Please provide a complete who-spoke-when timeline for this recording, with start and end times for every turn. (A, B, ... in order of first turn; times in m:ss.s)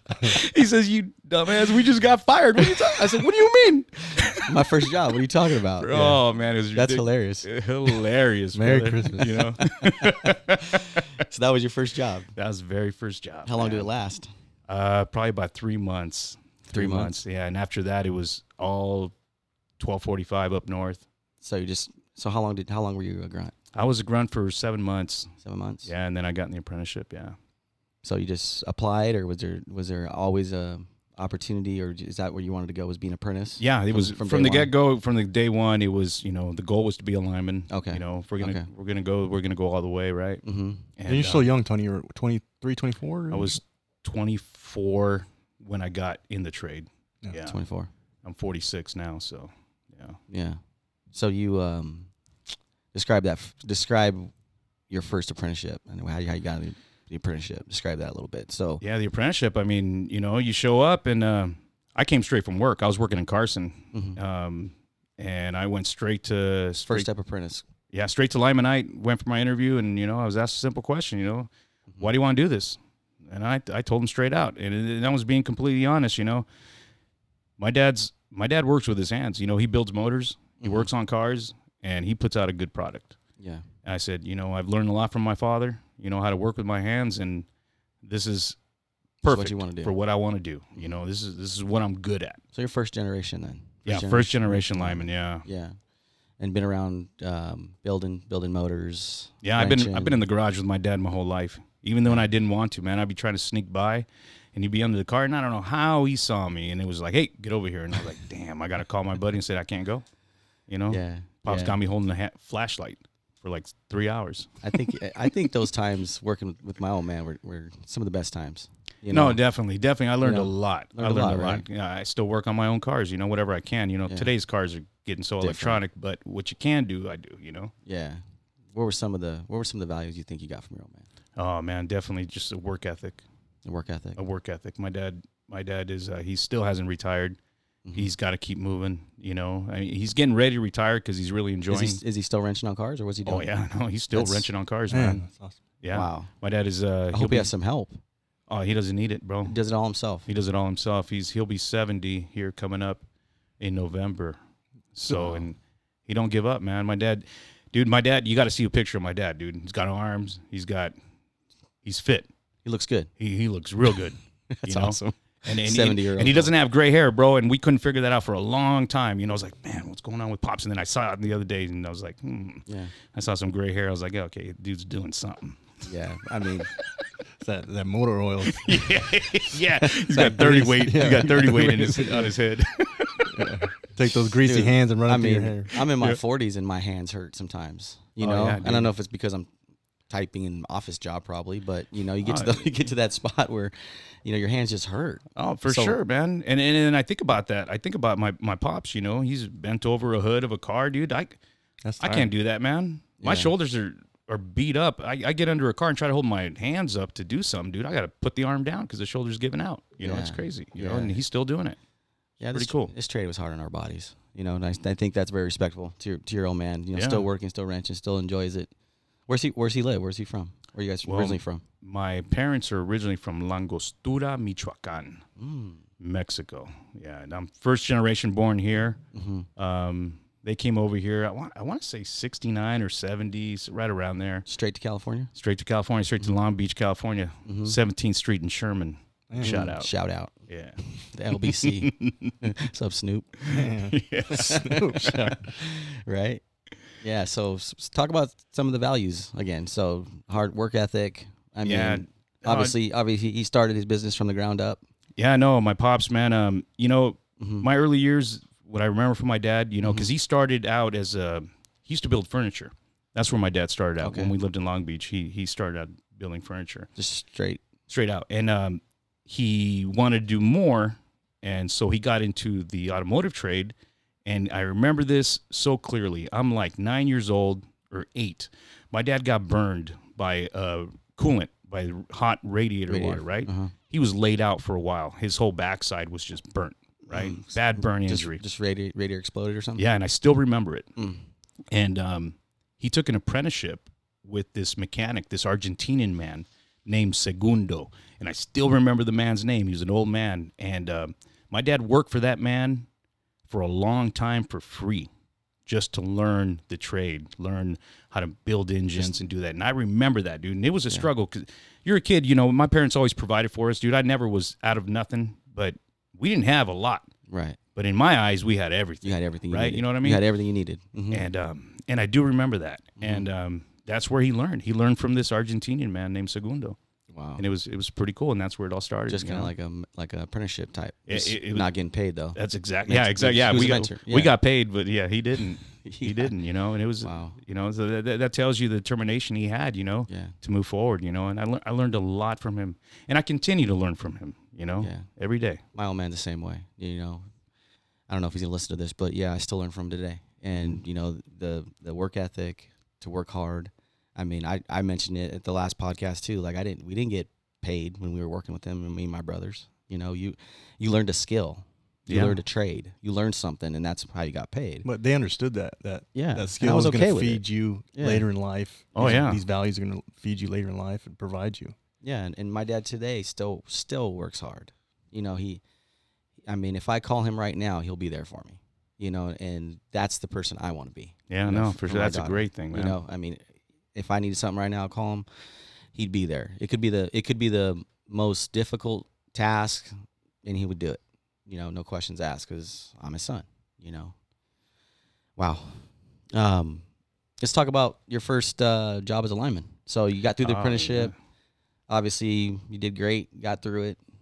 0:00.2-0:04.6 A
0:04.4-0:06.2 B
0:05.8-0:11.1 A
0:06.7-0:07.5 B
0:08.5-0:09.3 C
0:09.3-0:12.3 B
0:12.4-0:13.9 A
0:13.4-0:14.3 B
0:14.7-0:19.1 A
0:16.7-0:17.2 B
0:19.8-0:21.0 A
0:21.4-0:23.5 B
0:23.7-0:25.3 A
0:25.4-0:25.9 B
0:25.8-0:27.4 A
0:28.0-0:34.7 B
0:33.6-0:40.4 A
0:37.7-0:38.7 B
0:40.4-0:40.8 B
0:41.0-0:41.5 A
0:41.1-0:43.6 C
0:43.3-0:47.6 A
0:47.3-0:47.9 B
0:48.2-0:50.2 A
0:50.3-0:50.6 B
0:51.1-0:52.1 B
0:52.9-0:54.3 B
0:54.9-0:58.8 B
0:58.8-1:07.1 A
1:03.9-1:04.2 B
1:06.9-1:07.6 B
1:07.9-1:16.4 A
1:17.6-1:23.2 A
1:20.6-1:20.9 B
1:23.4-1:23.6 B
1:23.8-1:27.4 A
1:28.0-1:28.6 A
1:29.2-1:32.4 A
1:29.3-1:29.9 B
1:32.5-1:35.8 B
1:33.8-1:35.4 A
1:36.4-1:40.2 B
1:39.4-1:50.0 A
1:50.7-1:54.9 A
1:50.9-1:51.8 B
1:54.6-1:59.4 B
1:59.1-2:07.7 A
2:00.2-2:01.6 B
2:05.4-2:05.8 B
2:07.8-2:08.2 B
2:08.7-2:11.0 B
2:11.4-2:13.2 A
2:13.6-2:14.2 B
2:14.2-2:17.4 A
2:17.8-2:18.1 B
2:17.9-2:22.0 A
2:21.7-2:23.5 B
2:23.2-2:25.2 A
2:24.1-2:24.5 B
2:24.9-2:25.6 C
2:25.8-2:27.5 A
2:25.9-2:26.3 B
2:27.1-2:28.0 B
2:28.5-2:29.5 A
2:29.4-2:30.3 B
2:30.3-2:33.0 A
2:33.6-2:34.4 A
2:34.9-2:35.6 A
2:35.1-2:35.4 B
2:36.1-2:40.9 A
2:41.8-2:42.3 A
2:42.6-2:43.1 B
2:43.2-2:55.7 A
2:44.5-2:46.5 B
2:52.7-2:52.9 B
2:55.8-2:56.7 B
2:57.4-2:58.8 C
2:58.5-3:03.5 A
2:59.7-3:01.7 B
3:00.8-3:02.3 C
3:03.3-3:05.7 C
3:04.4-3:09.5 B
3:08.2-3:08.9 A
3:10.1-3:13.7 B
3:12.2-3:12.6 A
3:14.2-3:16.0 B
3:15.4-3:21.4 A
3:21.8-3:22.3 C
3:22.0-3:31.8 A
3:23.2-3:23.5 B
3:30.0-3:31.2 B
3:32.4-3:38.7 B
3:32.5-3:32.9 A
3:36.9-3:37.2 A
3:39.3-3:41.6 B
3:41.0-3:45.2 A
3:45.4-3:45.8 B
3:46.0-3:49.0 A
3:49.1-3:49.5 B
3:49.6-3:54.4 A
3:54.4-3:55.3 B
3:55.4-3:59.9 A
3:57.4-3:57.8 B
3:59.3-3:59.6 C
3:59.4-4:00.3 B
4:00.5-4:00.8 A
4:00.8-4:03.3 B
4:01.3-4:02.4 A
4:03.4-4:05.3 A
4:03.5-4:05.4 C
4:04.3-4:06.4 B
4:07.0-4:14.8 B
4:11.6-4:12.7 A
4:15.2-4:26.9 A
4:17.4-4:17.7 B
4:19.8-4:20.1 B
4:24.0-4:24.3 B
4:27.0-4:27.6 B
4:27.9-4:33.7 A
4:34.2-4:48.4 A
4:42.9-4:43.7 B
4:47.1-4:49.8 B
4:49.8-4:50.9 A
4:51.0-4:51.2 B
4:51.7-5:02.9 A
5:03.5-5:05.1 A
5:05.7-5:17.1 A
5:17.3-5:17.6 B
5:17.7-5:20.2 A
5:19.0-5:21.3 B
5:21.1-5:26.8 A
5:23.0-5:23.2 B
5:27.1-5:27.4 B
5:27.4-5:29.5 A
5:29.1-5:34.3 B
5:31.1-5:31.7 A
5:32.3-5:45.6 A
5:35.8-5:36.3 B
5:37.0-5:37.4 B
5:40.1-5:40.3 B
5:44.8-5:45.1 B
5:45.7-5:47.3 B
5:48.1-6:04.9 B
6:02.1-6:02.4 A
6:04.8-6:11.7 C
6:06.1-6:07.4 B
6:07.9-6:08.2 B
6:08.9-6:09.4 A
6:12.0-6:15.6 B
6:16.5-6:23.4 B
6:21.3-6:23.0 A
6:23.9-6:25.2 B
6:25.9-6:29.9 B
6:30.4-6:34.1 B
6:35.4-6:36.8 B
6:37.4-6:41.1 B
6:40.4-6:41.1 A
6:41.9-6:44.0 B